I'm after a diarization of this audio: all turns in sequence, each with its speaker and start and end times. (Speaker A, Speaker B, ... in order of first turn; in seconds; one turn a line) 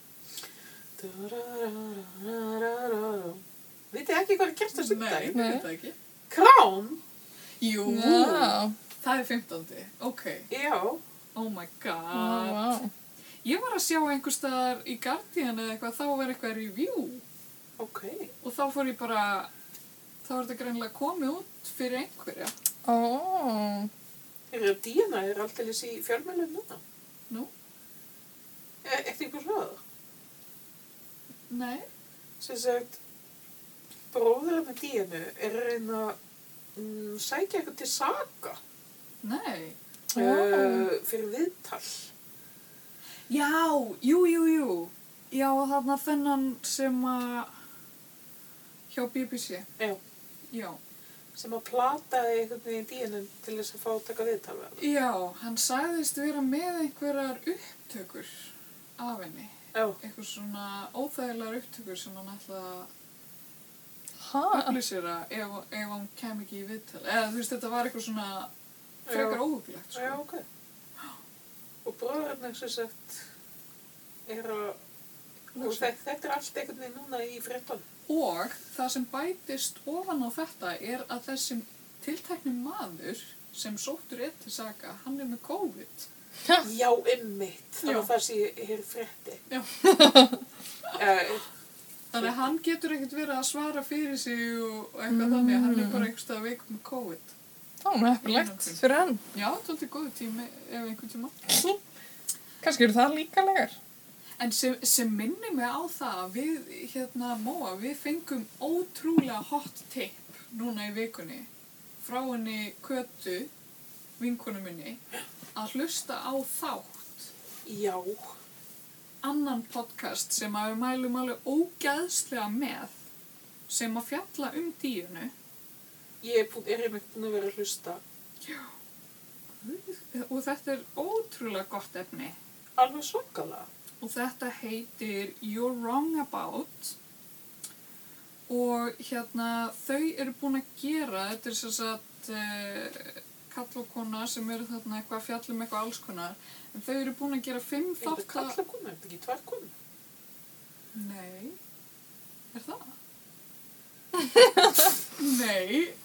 Speaker A: 1.0-5.3
Speaker B: 4.8-5.9
Speaker C: 5.3-5.7
Speaker A: 6.3-7.0
Speaker B: 7.6-10.5
Speaker C: 7.8-8.7
Speaker A: 10.5-11.0
Speaker B: 11.3-12.6
Speaker C: 12.1-12.9
Speaker B: 13.4-17.2
Speaker A: 17.8-18.3
Speaker B: 18.4-19.5
Speaker B: 20.2-22.5
Speaker C: 22.8-23.9
Speaker A: 24.5-26.8
Speaker A: 28.8-29.8
Speaker B: 31.5-31.9
Speaker A: 32.4-33.0
Speaker A: 34.1-36.1
Speaker A: 36.8-38.6
Speaker B: 39.2-39.8
Speaker C: 40.1-40.9
Speaker A: 40.1-42.1
Speaker B: 43.3-47.5
Speaker B: 48.9-49.7
Speaker B: 50.5-50.8
Speaker A: 51.4-54.8
Speaker B: 54.8-62.9
Speaker C: 64.2-64.8
Speaker B: 64.5-68.5
Speaker A: 69.1-69.4
Speaker B: 69.1-70.2
Speaker A: 69.9-70.4
Speaker A: 71.8-73.2
Speaker A: 74.3-74.8
Speaker A: 75.5-77.8
Speaker B: 75.5-75.9
Speaker B: 78.1-86.1
Speaker A: 86.6-89.4
Speaker B: 87.8-88.1
Speaker B: 89.5-90.2
Speaker C: 89.8-90.4
Speaker A: 90.9-91.4
Speaker B: 92.1-97.3
Speaker A: 92.2-92.5
Speaker C: 95.1-96.1
Speaker C: 97.8-99.2
Speaker B: 98.2-101.3
Speaker C: 101.5-101.8
Speaker C: 102.6-103.8
Speaker B: 104.4-111.5
Speaker B: 112.0-113.5
Speaker B: 114.2-115.0
Speaker B: 115.5-117.3
Speaker A: 117.6-118.3
Speaker B: 119.2-122.9
Speaker B: 123.7-125.3
Speaker A: 126.2-128.0
Speaker B: 128.4-128.7
Speaker B: 129.6-132.3
Speaker A: 132.8-133.7
Speaker B: 134.0-136.9
Speaker B: 138.5-148.6
Speaker A: 148.0-149.7
Speaker B: 150.9-151.6
Speaker B: 152.5-152.9
Speaker C: 154.2-154.9
Speaker B: 155.2-155.9